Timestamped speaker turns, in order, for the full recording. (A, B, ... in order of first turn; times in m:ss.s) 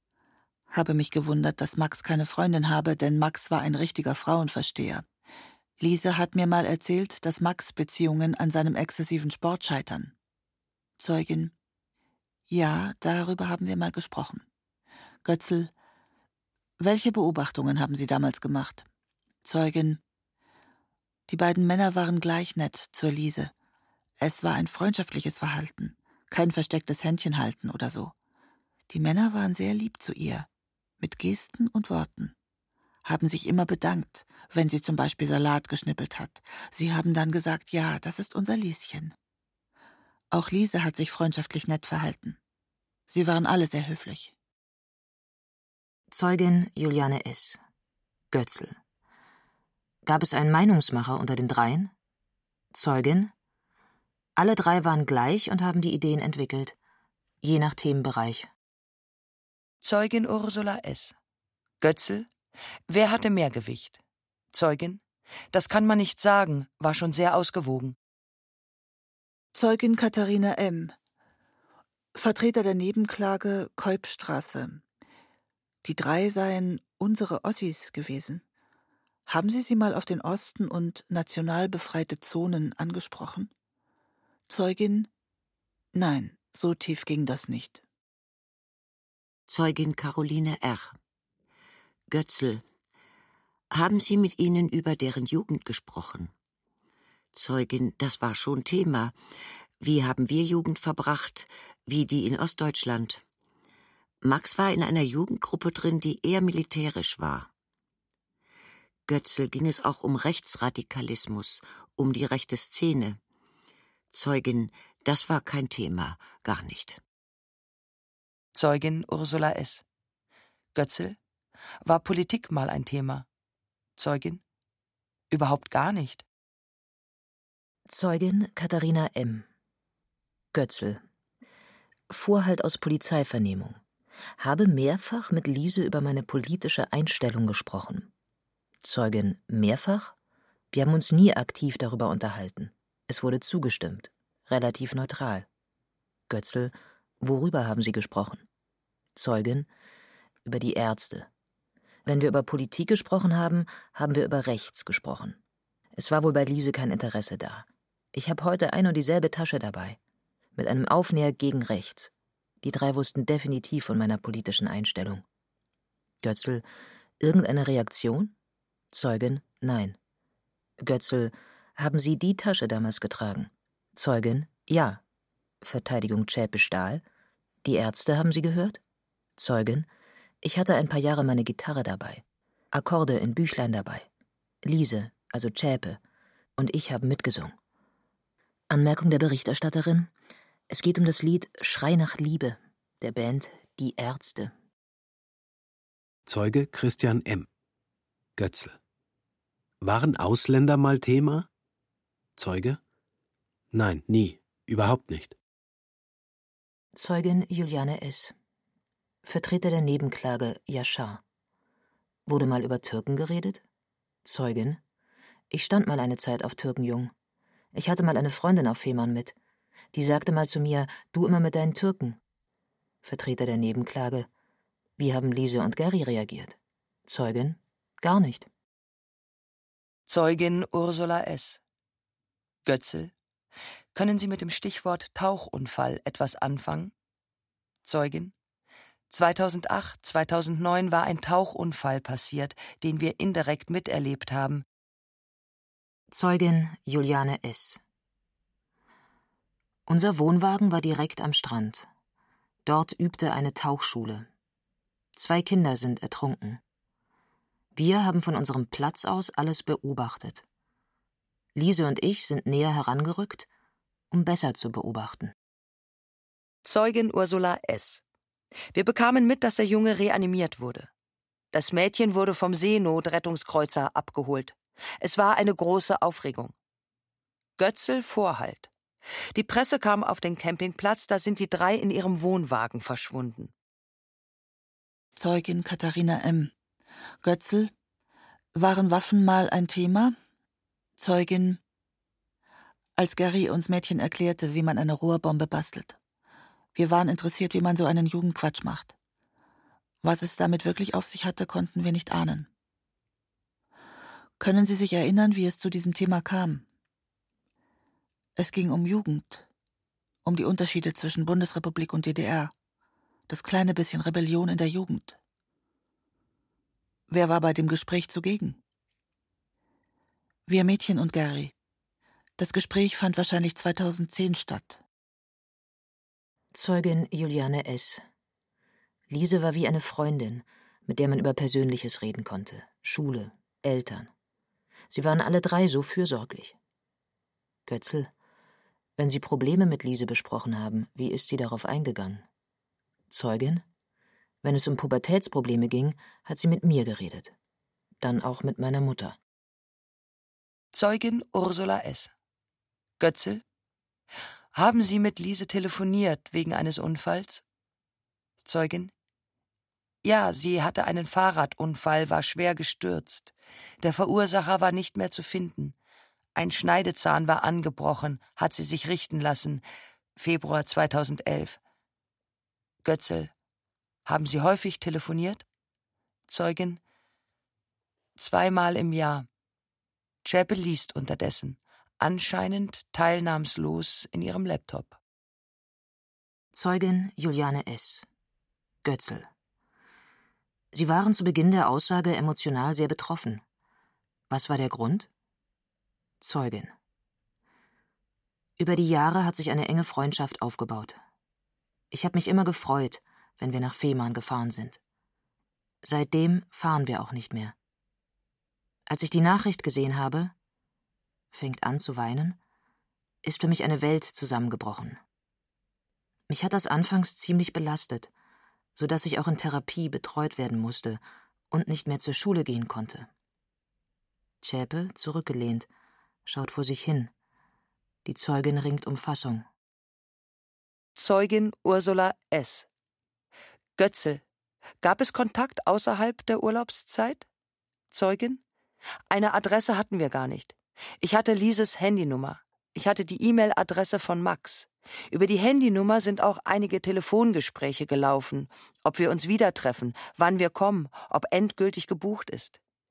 0:00.7-0:05.0 A
0:05.8-0:10.1 A
0:11.0-0:11.5 A
0:12.5-0:14.4 A
0:15.2-0:15.7 A
0:16.8-0:18.8 A
0:19.4-0:20.0 A
0:21.3-0:23.5 A
0:24.2-0:28.1 A
0:28.9-0:30.5 A
0:31.0-0:32.3 A
0:33.0-0:39.1 A
0:40.3-0:42.4 A
0:43.1-0:44.3 A
0:46.1-0:47.6 B
0:48.3-0:48.8 B
0:50.0-0:51.9 B
0:52.7-0:53.3 B
0:54.4-0:56.8 B
0:57.4-0:58.5 B
0:59.8-1:01.1 C
1:01.8-1:02.3 C
1:02.9-1:04.0 C
1:04.5-1:05.0 C
1:05.5-1:08.0 C
1:09.5-1:11.0 A
1:12.1-1:14.8 A
1:15.8-1:18.4 A
1:19.3-1:23.5 A
1:24.5-1:25.1 A
1:25.9-1:27.8 A
1:29.5-1:31.0 D
1:32.1-1:32.6 D
1:33.7-1:36.3 D
1:37.3-1:39.2 D
1:39.8-1:43.2 D
1:44.2-1:47.5 D
1:49.1-1:53.2 D
1:54.1-1:57.0 D
1:58.5-1:59.8 C
2:00.7-2:01.2 C
2:01.8-2:03.2 C
2:04.0-2:04.4 C
2:05.3-2:06.2 C
2:07.9-2:09.4 B
2:10.5-2:11.0 B
2:12.1-2:13.8 B
2:14.4-2:18.1 B
2:18.8-2:20.1 B
2:20.7-2:25.4 B
2:26.3-2:28.4 B
2:29.1-2:29.7 B
2:30.4-2:31.3 B
2:32.0-2:35.4 B
2:35.9-2:40.0 B
2:40.6-2:45.2 B
2:46.2-2:46.6 B
2:47.2-2:48.3 B
2:48.9-2:50.0 B
2:50.8-2:55.0 B
2:55.6-2:57.0 B
2:57.6-2:58.8 B
2:59.4-2:59.9 B
3:00.4-3:04.1 B
3:04.6-3:06.0 B
3:06.6-3:07.5 B
3:08.7-3:10.1 B
3:10.7-3:14.5 B
3:16.2-3:17.5 E
3:18.4-3:18.8 E
3:19.8-3:21.5 E
3:22.4-3:22.8 E
3:23.7-3:25.4 E
3:26.9-3:28.3 B
3:29.2-3:31.2 B
3:32.3-3:33.6 B
3:34.2-3:34.8 B
3:35.5-3:37.1 B
3:37.7-3:39.3 B
3:39.9-3:42.2 B
3:43.0-3:44.3 B
3:45.0-3:48.5 B
3:50.1-3:51.6 C
3:52.6-3:53.1 C
3:53.9-3:56.9 C
3:57.8-3:58.3 C
3:59.1-4:04.6 C
4:06.1-4:07.8 B
4:09.9-4:11.9 B
4:12.6-4:14.3 B
4:15.1-4:16.6 B
4:17.7-4:20.4 B
4:21.6-4:23.5 B
4:24.1-4:25.3 B
4:26.6-4:28.0 C
4:28.7-4:30.9 C
4:31.5-4:36.5 C
4:37.6-4:38.7 C
4:39.3-4:43.5 C
4:45.2-4:46.5 A
4:47.2-4:47.7 A
4:48.5-4:50.2 A
4:51.0-4:51.6 A
4:53.0-4:56.0 A
4:56.7-4:58.9 A
5:00.0-5:02.5 A
5:04.4-5:06.6 A
5:08.4-5:09.4 A
5:10.2-5:12.5 A
5:13.3-5:15.2 A
5:17.1-5:18.6 A
5:20.5-5:21.5 A
5:22.4-5:24.8 A
5:26.5-5:28.0 B
5:29.1-5:34.1 B
5:34.9-5:36.5 B
5:37.6-5:38.1 B
5:39.0-5:42.2 B
5:43.1-5:43.6 B
5:44.4-5:47.3 B
5:48.0-5:49.2 B
5:50.7-5:52.1 C
5:53.0-5:53.4 C
5:54.5-5:57.4 C
5:58.4-5:58.9 C
6:00.0-6:05.7 C
6:06.3-6:09.6 C
6:10.2-6:11.6 C
6:12.8-6:13.3 C
6:14.0-6:15.4 C
6:16.3-6:16.8 C
6:18.2-6:19.3 C
6:20.2-6:25.0 C
6:26.5-6:28.0 B
6:28.8-6:29.3 B
6:30.7-6:33.4 B
6:34.3-6:35.1 B
6:36.2-6:36.7 B
6:38.6-6:41.0 B
6:41.9-6:44.8 B
6:45.8-6:47.5 B
6:48.9-6:50.3 B
6:51.3-6:52.4 B
6:53.2-6:55.0 B
6:56.3-6:58.1 B
6:58.7-7:03.1 B
7:04.4-7:05.7 B
7:06.2-7:07.1 B
7:08.0-7:09.4 B
7:11.0-7:12.6 C
7:13.8-7:14.2 C
7:14.8-7:17.2 C
7:17.9-7:18.4 C
7:19.1-7:32.6 C